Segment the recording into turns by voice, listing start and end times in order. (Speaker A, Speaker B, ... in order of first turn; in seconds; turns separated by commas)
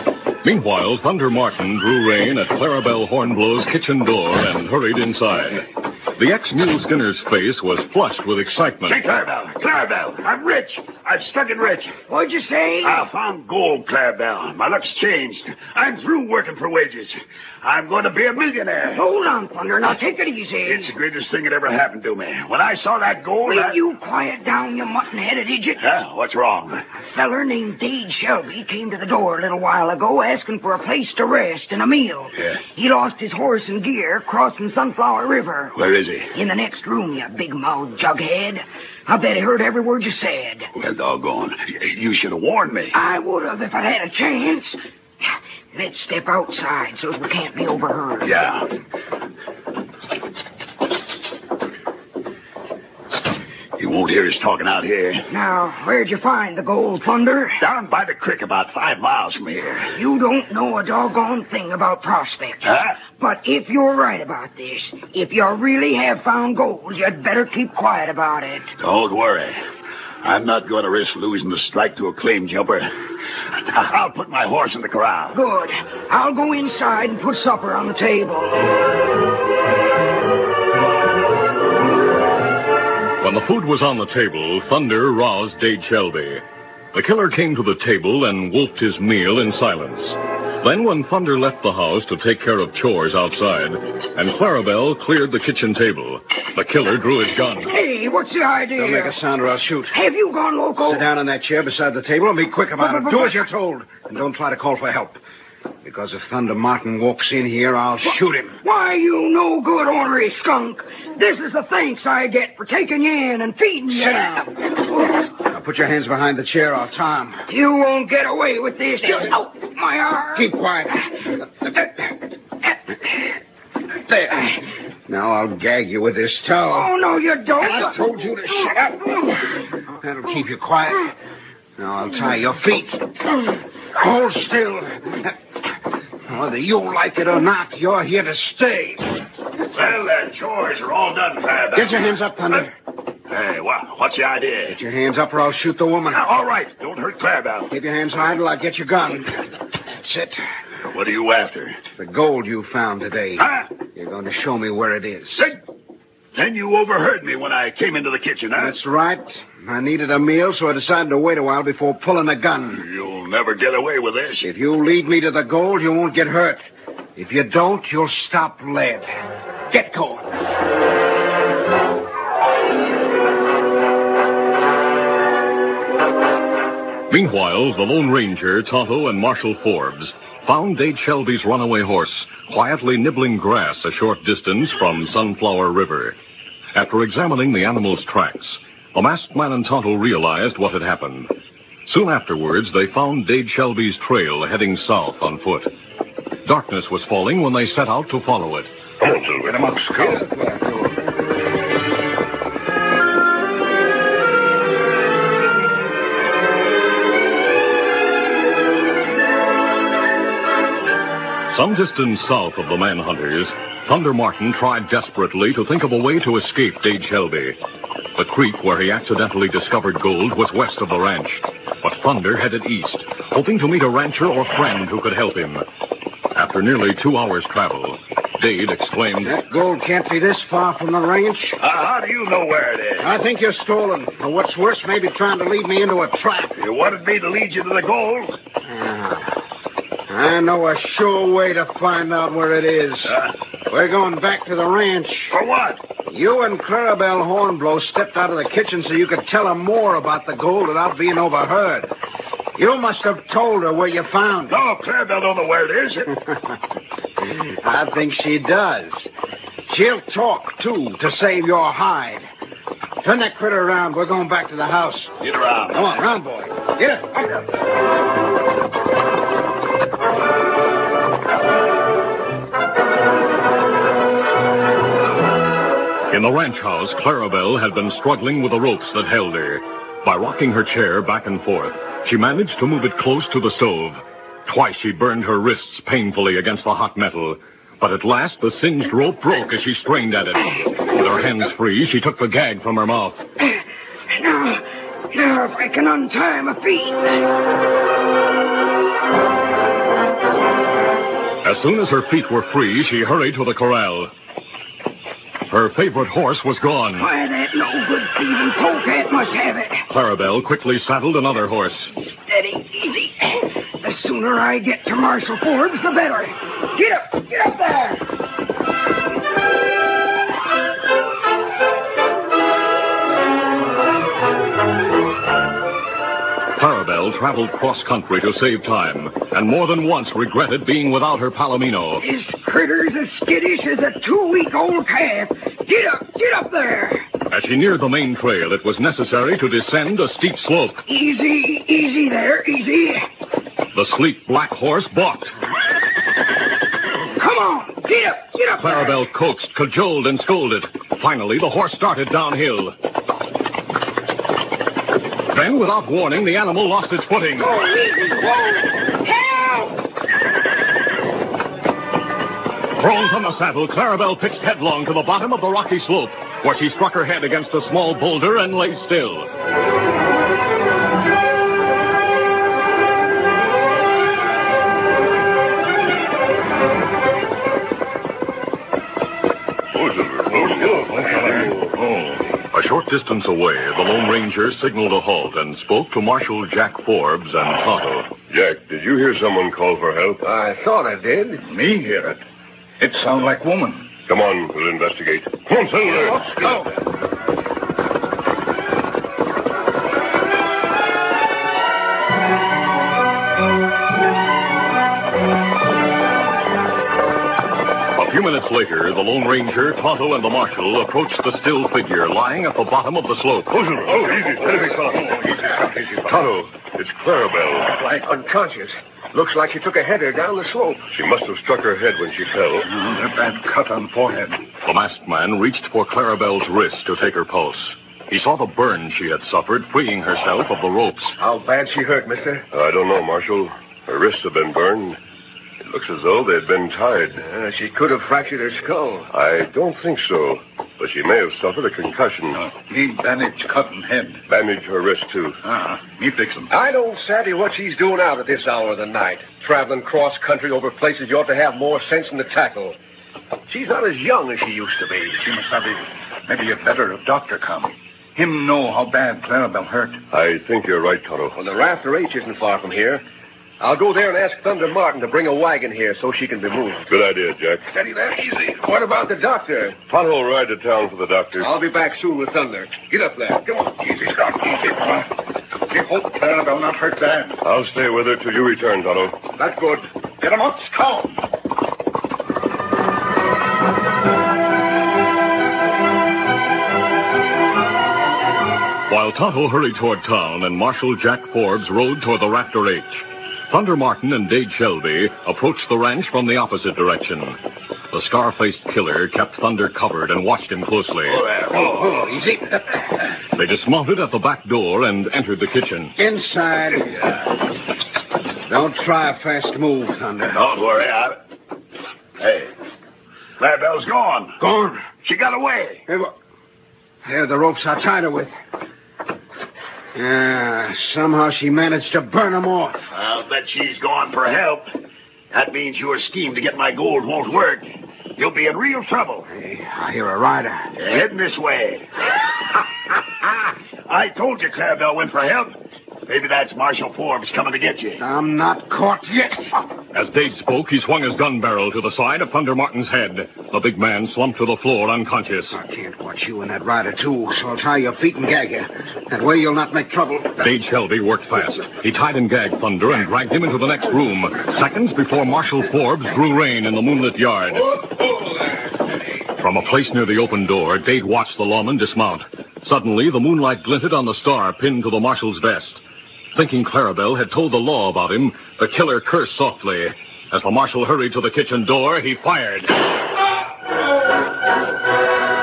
Speaker A: 0.4-9.0, Speaker B: 8.9-11.9, Speaker C: 12.1-13.1, Speaker B: 12.8-19.1, Speaker C: 18.9-20.9, Speaker B: 20.6-23.8, Speaker C: 23.4-25.9, Speaker B: 25.8-26.8, Speaker C: 27.1-35.8, Speaker B: 35.8-36.3, Speaker C: 36.3-40.7, Speaker B: 40.8-43.0, Speaker C: 42.9-44.8, Speaker C: 45.7-48.4, Speaker B: 48.2-48.7, Speaker B: 53.8-55.3, Speaker C: 55.3-57.6, Speaker B: 57.6-60.0, Speaker C: 59.9-68.7, Speaker B: 62.6-63.0, Speaker B: 68.8-69.6, Speaker B: 70.2-72.9, Speaker B: 73.6-75.4, Speaker C: 75.3-78.7, Speaker A: 83.2-97.7, Speaker C: 97.7-99.2, Speaker D: 98.8-99.9, Speaker C: 99.9-101.1, Speaker D: 100.8-105.2, Speaker C: 102.8-103.5, Speaker D: 105.8-108.6, Speaker C: 108.0-115.3, Speaker D: 113.9-114.5, Speaker D: 115.3-117.4, Speaker C: 117.5-120.5, Speaker D: 120.3-121.3, Speaker D: 124.1-124.5, Speaker D: 125.1-126.9, Speaker C: 126.7-129.4, Speaker D: 127.6-129.1, Speaker D: 130.0-131.1, Speaker D: 131.8-135.4, Speaker D: 136.3-139.2, Speaker B: 139.7-142.3, Speaker D: 141.8-142.7, Speaker B: 143.3-144.8, Speaker D: 144.7-146.3, Speaker B: 146.1-147.7, Speaker D: 147.7-150.4, Speaker B: 150.8-151.8, Speaker D: 152.0-155.5, Speaker B: 153.4-153.7, Speaker B: 156.3-158.8, Speaker D: 158.6-162.9, Speaker B: 162.7-164.5, Speaker D: 164.4-166.6, Speaker D: 167.2-169.1, Speaker D: 169.7-170.2, Speaker A: 177.1-186.2, Speaker A: 186.7-191.3, Speaker A: 191.9-195.7, Speaker A: 196.4-198.7, Speaker E: 199.0-199.6, Speaker F: 199.5-200.2, Speaker A: 211.5-217.6, Speaker A: 218.2-225.6, Speaker A: 226.3-229.3, Speaker D: 229.2-231.6, Speaker B: 231.6-233.2, Speaker D: 233.0-236.5, Speaker B: 236.6-238.4, Speaker D: 238.7-239.4, Speaker D: 240.1-243.2, Speaker D: 243.7-245.4, Speaker B: 245.3-245.8, Speaker D: 246.1-251.9, Speaker D: 252.6-254.6, Speaker B: 254.5-256.2, Speaker D: 257.2-259.1, Speaker D: 259.7-262.3, Speaker D: 263.0-265.1, Speaker B: 265.2-266.1, Speaker D: 265.7-267.5, Speaker A: 276.1-293.3, Speaker C: 294.1-297.4, Speaker A: 301.4-304.1, Speaker A: 305.5-307.1, Speaker C: 307.0-309.8, Speaker A: 309.9-311.9, Speaker C: 312.1-318.0, Speaker A: 326.6-332.0, Speaker C: 332.0-337.1, Speaker A: 337.3-340.8, Speaker C: 340.9-343.0, Speaker A: 343.7-345.4, Speaker C: 347.1-348.9, Speaker A: 348.6-352.8, Speaker A: 355.3-357.6, Speaker C: 357.4-359.7, Speaker A: 362.8-369.3, Speaker E: 379.7-381.6, Speaker F: 380.5-382.2, Speaker A: 382.5-388.1, Speaker E: 388.3-390.2, Speaker G: 390.2-391.4, Speaker F: 391.4-392.2, Speaker F: 392.8-393.9, Speaker E: 394.1-396.3, Speaker F: 396.2-396.7, Speaker A: 408.0-413.6, Speaker E: 413.5-415.2, Speaker F: 413.9-416.3, Speaker E: 416.0-417.8, Speaker G: 417.8-420.9, Speaker E: 420.9-422.7, Speaker F: 422.6-424.4, Speaker A: 424.6-431.2, Speaker G: 431.2-432.4, Speaker E: 432.5-435.0, Speaker E: 435.6-437.2, Speaker G: 437.2-439.1, Speaker E: 439.1-442.4, Speaker F: 442.4-444.2, Speaker E: 444.3-445.4, Speaker F: 445.4-446.5, Speaker G: 446.5-452.8, Speaker G: 453.5-455.2, Speaker F: 455.2-460.0, Speaker E: 460.1-461.4, Speaker G: 461.4-463.0, Speaker G: 463.6-466.9, Speaker E: 466.9-467.7, Speaker G: 467.7-469.9, Speaker E: 469.9-471.5, Speaker G: 471.4-473.8, Speaker F: 473.8-475.1, Speaker F: 475.7-477.4, Speaker E: 477.4-479.2, Speaker F: 479.4-481.2, Speaker A: 488.9-497.4, Speaker A: 497.9-501.2, Speaker B: 501.1-502.0, Speaker D: 501.5-502.8, Speaker A: 503.3-505.9, Speaker D: 506.0-507.0, Speaker D: 508.4-510.5, Speaker B: 510.3-511.2, Speaker B: 512.2-512.5, Speaker B: 513.4-514.4, Speaker D: 514.4-514.8, Speaker B: 515.0-515.8, Speaker D: 517.0-518.3, Speaker D: 520.0-522.8, Speaker B: 522.9-524.7, Speaker B: 525.3-529.3, Speaker D: 529.3-530.7, Speaker B: 530.8-531.9, Speaker B: 533.9-535.5, Speaker B: 536.1-538.0, Speaker D: 538.0-539.6, Speaker A: 539.9-545.6, Speaker D: 545.5-550.5, Speaker A: 550.4-557.9, Speaker A: 559.4-565.8, Speaker A: 566.3-572.8